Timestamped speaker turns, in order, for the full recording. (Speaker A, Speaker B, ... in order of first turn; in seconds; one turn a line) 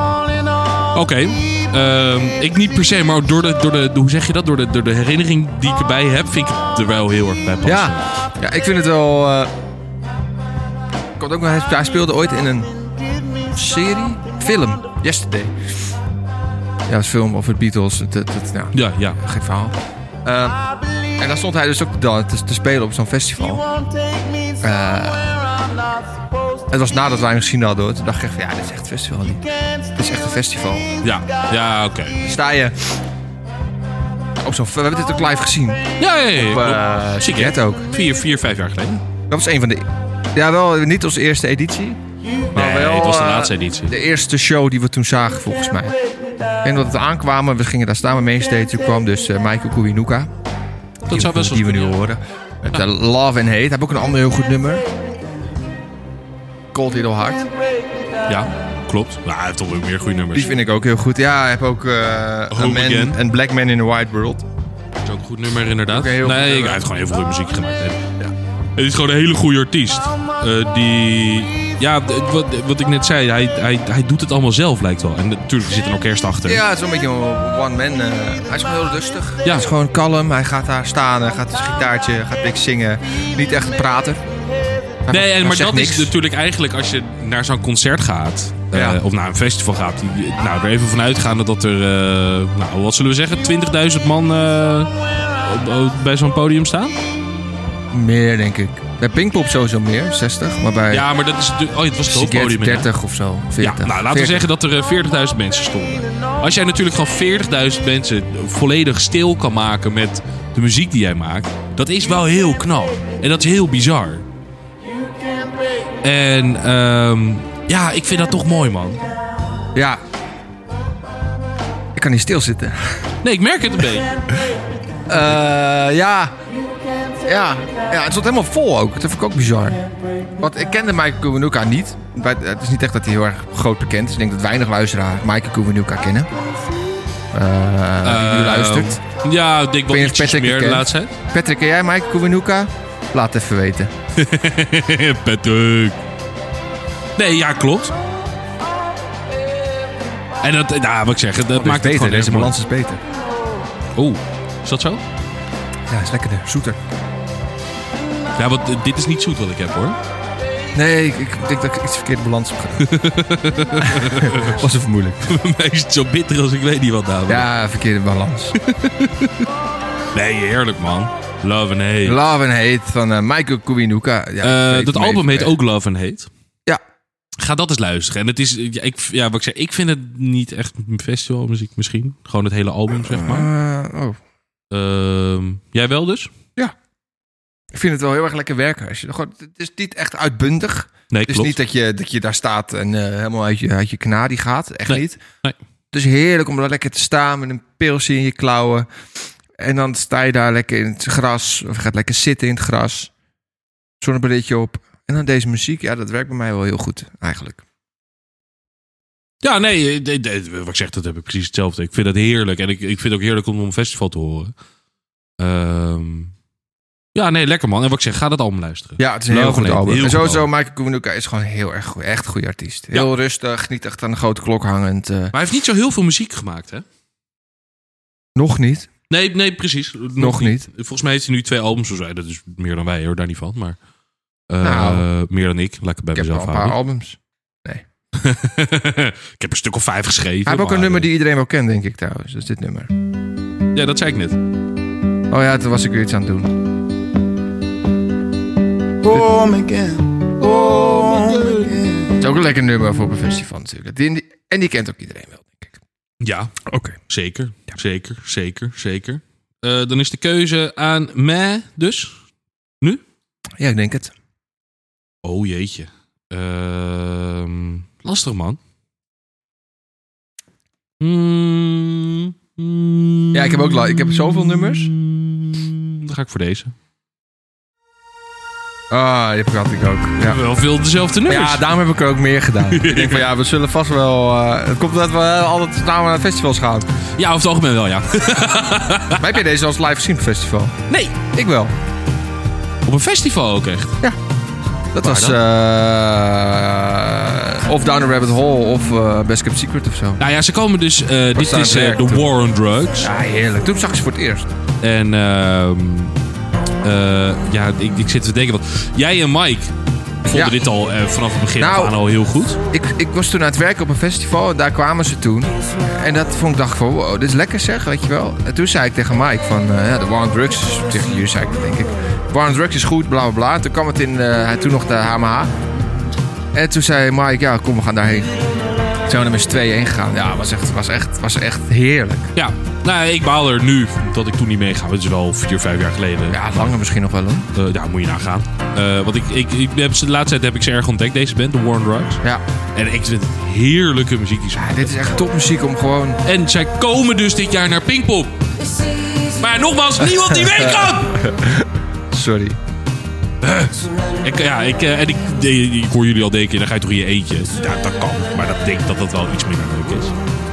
Speaker A: 0.9-8.2
Speaker B: 7.6-9.5
Speaker B: 11.2-12.7
Speaker B: 13.5-15.7
Speaker B: 16.9-20.6
Speaker A: 18.7-19.2
Speaker B: 21.2-23.6
Speaker B: 24.6-25.4
Speaker B: 26.7-30.9
Speaker A: 31.0-32.2
Speaker B: 32.2-33.0
Speaker B: 34.4-37.9
Speaker A: 36.0-39.0
Speaker B: 39.3-42.0
Speaker B: 42.5-45.9
Speaker A: 42.5-44.0
Speaker B: 46.6-50.3
Speaker A: 51.1-52.0
Speaker B: 51.1-54.9
Speaker B: 56.7-57.5
Speaker A: 58.3-60.5
Speaker B: 60.3-64.4
Speaker A: 62.5-63.2
Speaker A: 65.0-68.1
Speaker B: 65.9-66.8
Speaker A: 68.8-76.6
Speaker B: 76.4-84.2
Speaker B: 85.0-86.1
Speaker A: 85.1-97.0
Speaker B: 88.7-89.0
Speaker B: 97.9-101.1
Speaker A: 100.9-102.9
Speaker B: 102.1-104.5
Speaker A: 103.6-114.2
Speaker A: 116.0-119.1
Speaker B: 119.7-120.0
Speaker B: 121.9-123.0
Speaker A: 123.2-124.2
Speaker B: 125.1-126.4
Speaker B: 127.2-129.8
Speaker B: 130.4-136.3
Speaker B: 137.3-139.0
Speaker A: 138.0-141.2
Speaker B: 139.9-143.9
Speaker A: 144.1-146.0
Speaker A: 147.2-147.9
Speaker A: 150.4-152.6
Speaker B: 151.5-153.0
Speaker A: 153.9-155.0
Speaker B: 155.9-156.8
Speaker A: 158.3-160.0
Speaker B: 160.7-162.9
Speaker A: 162.8-164.6
Speaker B: 163.8-165.3
Speaker A: 165.2-167.5
Speaker B: 167.3-168.6
Speaker A: 168.6-169.4
Speaker A: 170.1-172.2
Speaker B: 172.0-175.5
Speaker A: 174.4-176.3
Speaker A: 177.4-183.5
Speaker B: 183.0-184.2
Speaker A: 184.7-186.3
Speaker B: 187.7-195.2
Speaker A: 191.1-191.6
Speaker A: 194.9-195.6
Speaker B: 195.9-198.9
Speaker B: 199.6-203.1
Speaker B: 204.0-207.6
Speaker A: 209.4-214.5
Speaker A: 215.4-216.3
Speaker A: 217.1-220.5
Speaker B: 219.0-225.3
Speaker A: 225.3-226.8
Speaker B: 228.3-228.9
Speaker A: 229.1-233.8
Speaker B: 230.2-230.7
Speaker A: 234.5-236.8
Speaker B: 234.6-235.1
Speaker B: 236.1-237.8
Speaker A: 238.1-241.1
Speaker B: 240.4-242.9
Speaker A: 243.7-244.4
Speaker B: 245.3-246.5
Speaker C: 249.0-252.1
Speaker B: 249.1-249.4
Speaker B: 252.2-255.8
Speaker A: 256.2-262.2
Speaker B: 256.6-257.0
Speaker B: 263.6-264.1
Speaker A: 265.2-268.6
Speaker A: 271.0-276.7
Speaker B: 273.3-274.9
Speaker B: 278.9-280.4
Speaker A: 280.2-281.7
Speaker B: 281.2-286.9
Speaker A: 282.7-283.3
Speaker A: 287.2-289.3
Speaker B: 289.2-291.7
Speaker A: 290.9-291.2
Speaker A: 292.9-294.0
Speaker B: 294.9-300.2
Speaker A: 295.0-295.4
Speaker A: 300.2-303.1
Speaker B: 301.3-302.3
Speaker B: 303.0-304.5
Speaker A: 304.8-306.1
Speaker A: 306.8-309.7
Speaker A: 310.2-312.6
Speaker B: 310.3-310.6
Speaker B: 311.6-312.0
Speaker B: 312.7-325.5
Speaker B: 326.5-328.3
Speaker B: 329.1-332.3
Speaker A: 332.3-336.8
Speaker B: 336.3-337.5
Speaker A: 337.5-342.2
Speaker A: 342.7-345.1
Speaker B: 344.5-346.2
Speaker A: 346.2-348.4
Speaker A: 349.2-351.3
Speaker B: 350.1-352.6
Speaker A: 353.4-360.1